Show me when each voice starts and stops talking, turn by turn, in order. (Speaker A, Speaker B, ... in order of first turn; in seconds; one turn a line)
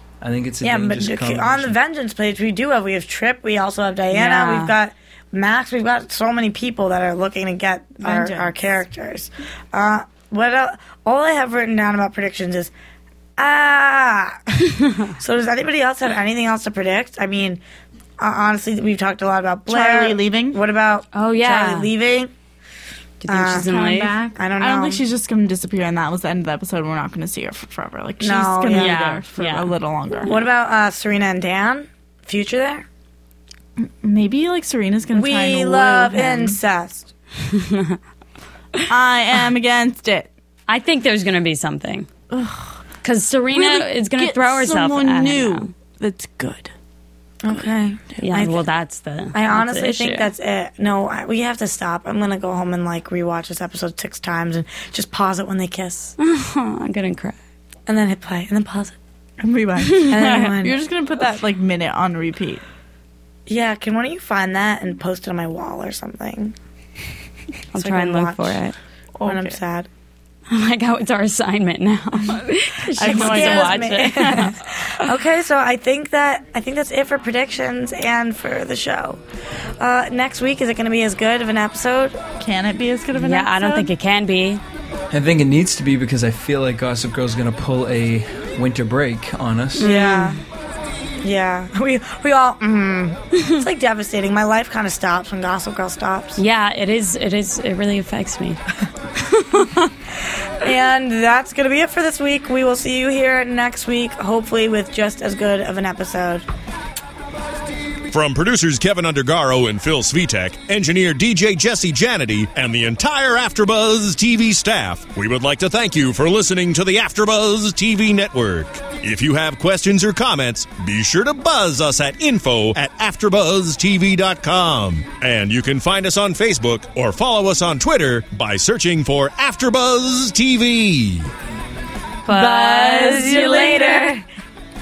Speaker A: 0.2-1.8
Speaker B: 0.6-12.7
Speaker C: 4.1-4.7
Speaker D: 8.0-8.5
Speaker B: 13.4-17.6
Speaker B: 18.2-22.3
Speaker D: 19.7-20.6
Speaker C: 21.1-21.9
Speaker C: 23.2-24.1
Speaker B: 23.3-23.7
Speaker D: 23.5-30.4
Speaker B: 24.3-25.0
Speaker B: 28.2-29.0
Speaker C: 28.7-29.7
Speaker B: 30.2-32.9
Speaker D: 33.8-36.6
Speaker B: 35.1-37.1
Speaker C: 37.5-38.0
Speaker D: 38.9-40.3
Speaker C: 40.7-42.1
Speaker D: 42.3-42.8
Speaker C: 43.0-45.7
Speaker D: 43.5-46.7
Speaker B: 47.4-48.7
Speaker C: 48.2-50.3
Speaker B: 49.3-56.1
Speaker C: 56.2-57.4
Speaker B: 57.9-59.0
Speaker D: 59.4-62.6
Speaker C: 59.9-60.4
Speaker B: 60.0-60.8
Speaker B: 63.5-66.5
Speaker C: 67.7-68.7
Speaker B: 67.7-68.6
Speaker D: 69.2-69.6
Speaker B: 69.2-69.9
Speaker C: 70.5-75.1
Speaker D: 73.0-73.8
Speaker B: 73.0-79.2
Speaker B: 79.8-82.2
Speaker D: 82.4-83.9
Speaker C: 83.1-84.6
Speaker A: 85.1-89.9
Speaker B: 89.8-90.4
Speaker C: 89.8-90.4
Speaker B: 91.2-96.4
Speaker C: 96.4-98.6
Speaker C: 99.3-99.8
Speaker B: 100.6-106.4
Speaker E: 108.1-131.3
Speaker C: 132.2-134.2
Speaker B: 132.3-134.1